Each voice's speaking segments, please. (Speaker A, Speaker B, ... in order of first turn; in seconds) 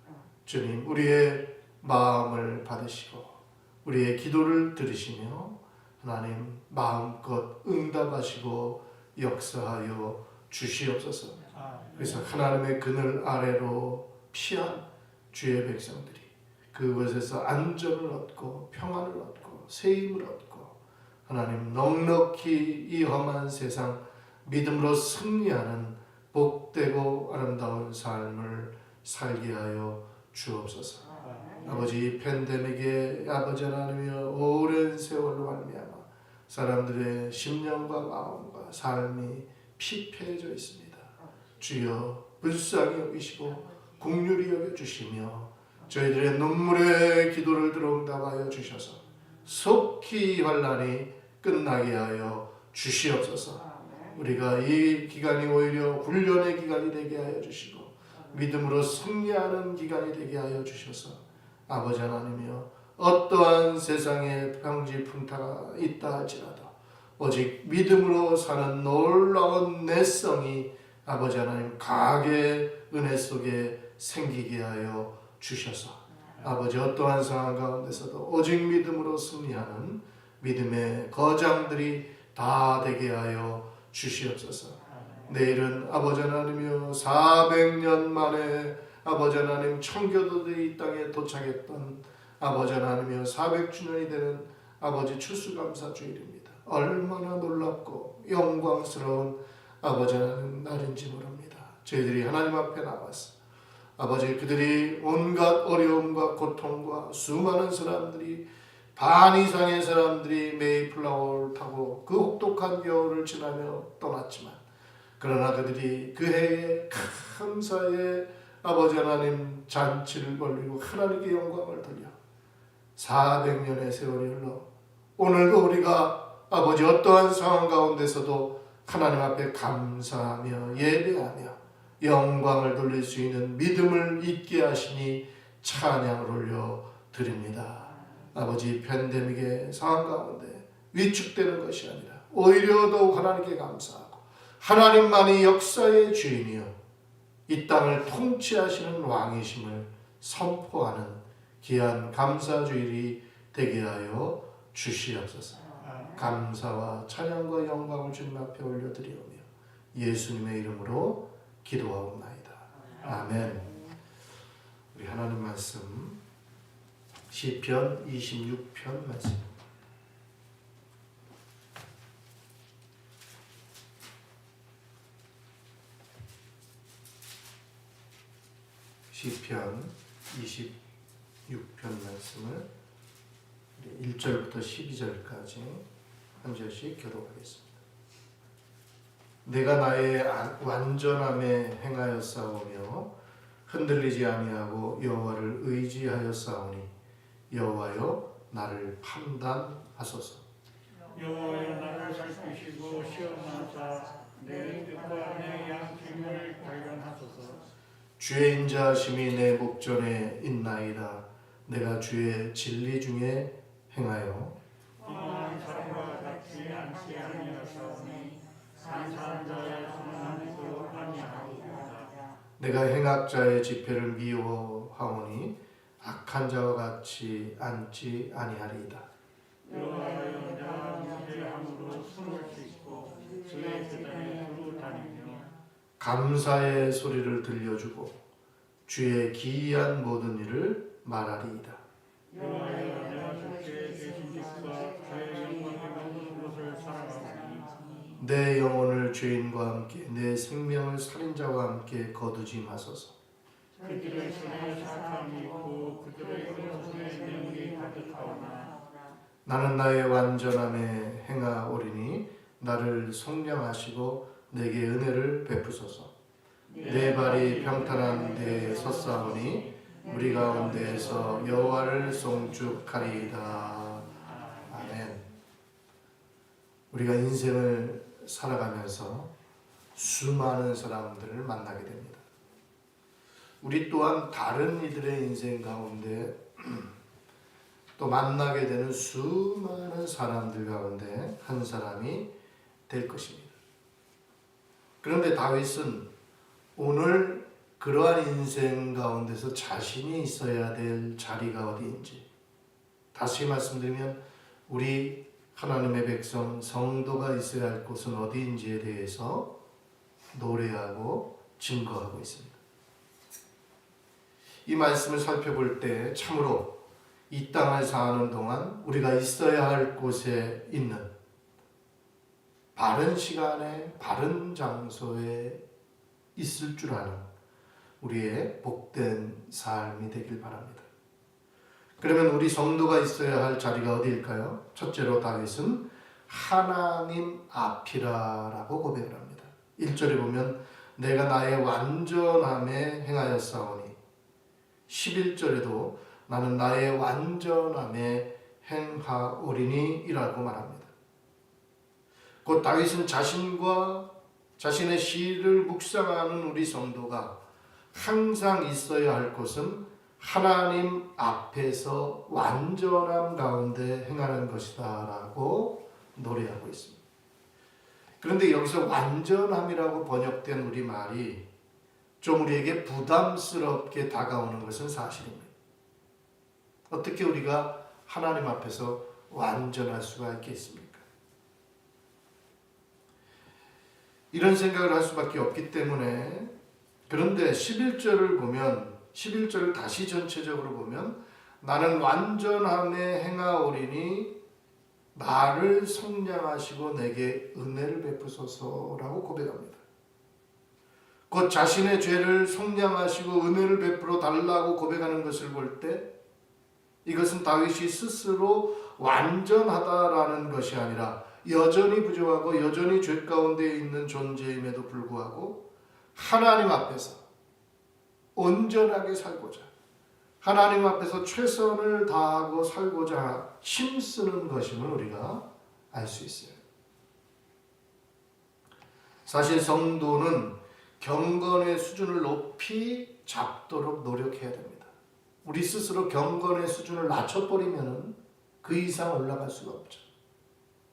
Speaker A: 0.5-11.4, 11.9-20.7, 21.2-31.0, 31.6-103.3, 104.0-108.4, 109.0-114.6, 115.2-122.1, 123.0-124.7, 125.2-146.7, 147.5-155.6, 156.2-163.7, 164.9-166.2, 167.3-169.4, 179.1-180.7, 181.5-182.7, 183.8-185.8, 186.4-187.8, 189.4-193.1, 193.7-196.9, 197.5-200.4, 208.2-214.6, 222.6-229.1, 236.0-238.2, 238.8-241.8, 248.2-253.1, 259.4-266.1, 266.8-274.1, 274.7-275.2, 276.9-279.3, 279.9-282.2, 283.6-286.9, 288.0-292.3, 292.9-293.5, 295.0-296.1, 296.8-302.2, 303.1-309.5, 310.3-312.6, 314.6-316.7, 317.3-321.1, 322.7-325.6, 326.4-327.2, 328.0-330.9, 332.0-343.9, 344.9-350.9, 352.4-357.3, 357.9-367.0, 368.2-371.4, 372.2-375.5, 376.9-381.0, 384.3-386.5, 387.1-394.3, 395.1-399.8, 401.3-406.0, 407.0-415.6, 416.1-417.2, 418.3-419.7, 420.4-426.6, 429.2-434.9, 435.4-440.0
Speaker B: 11.5-12.3, 31.2-31.9, 84.9-85.3, 155.8-156.2, 201.1-207.6, 215.0-222.2, 229.6-235.5, 242.3-248.1, 253.8-258.8, 266.8-267.5